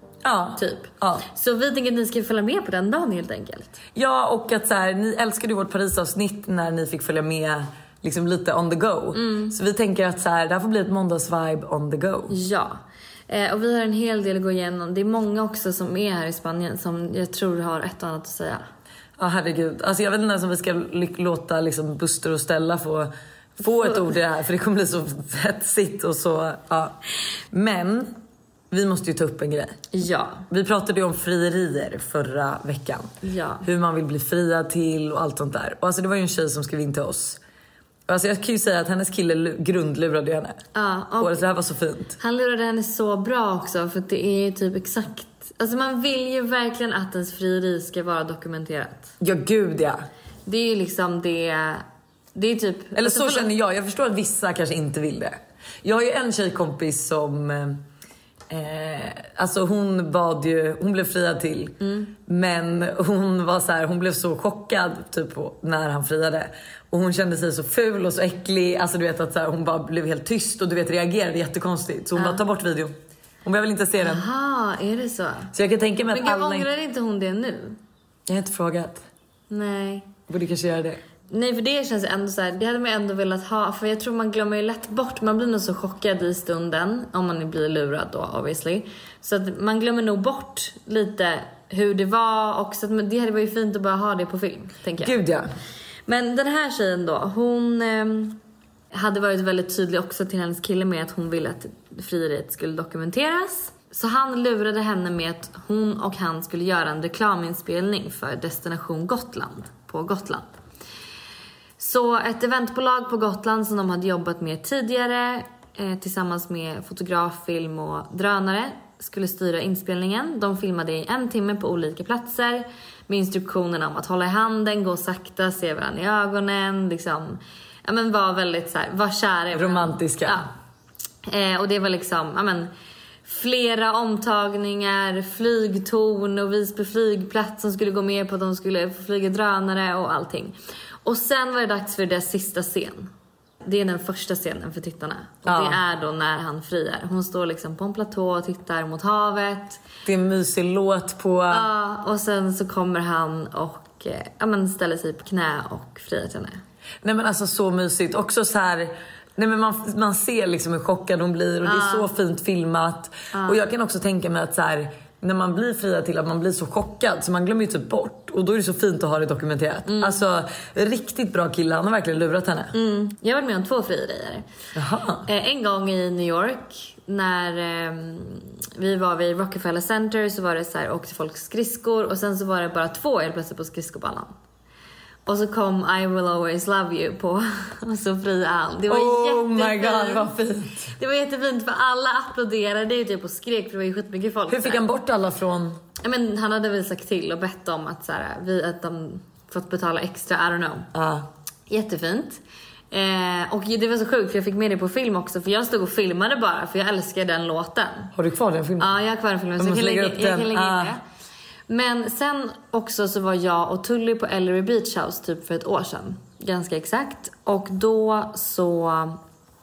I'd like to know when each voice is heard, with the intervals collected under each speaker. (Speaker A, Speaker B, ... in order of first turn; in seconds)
Speaker A: 0.2-1.2, 3.9-12.3, 19.2-27.0, 27.5-28.1, 28.7-29.8, 30.5-37.4, 38.1-40.6, 41.2-42.2, 49.2-50.0, 53.0-57.8, 58.5-74.2, 75.5-76.7, 78.3-79.0, 80.3-81.0, 95.0-95.5, 129.5-130.4, 145.4-145.8, 150.0-151.7, 157.0-172.8, 174.7-175.2, 188.9-190.9, 194.5-195.8, 200.9-201.3, 208.1-208.9, 209.6-210.9
Speaker B: 0.6-3.7, 9.1-9.5, 12.3-18.6, 29.9-30.4, 33.2-33.6, 40.7-41.4, 42.2-49.1, 50.5-53.5, 61.8-62.1, 72.2-72.4, 74.0-75.5, 76.1-77.8, 79.5-80.1, 81.3-95.1, 96.0-98.4, 98.9-110.5, 111.8-130.5, 131.2-132.7, 133.2-143.1, 143.6-149.8, 151.5-156.6, 161.6-162.1, 163.3-163.6, 169.8-170.2, 172.7-174.4, 175.2-184.3, 185.2-190.3, 191.0-194.8, 196.0-200.9, 201.7-208.1, 208.8-211.0, 211.7-219.2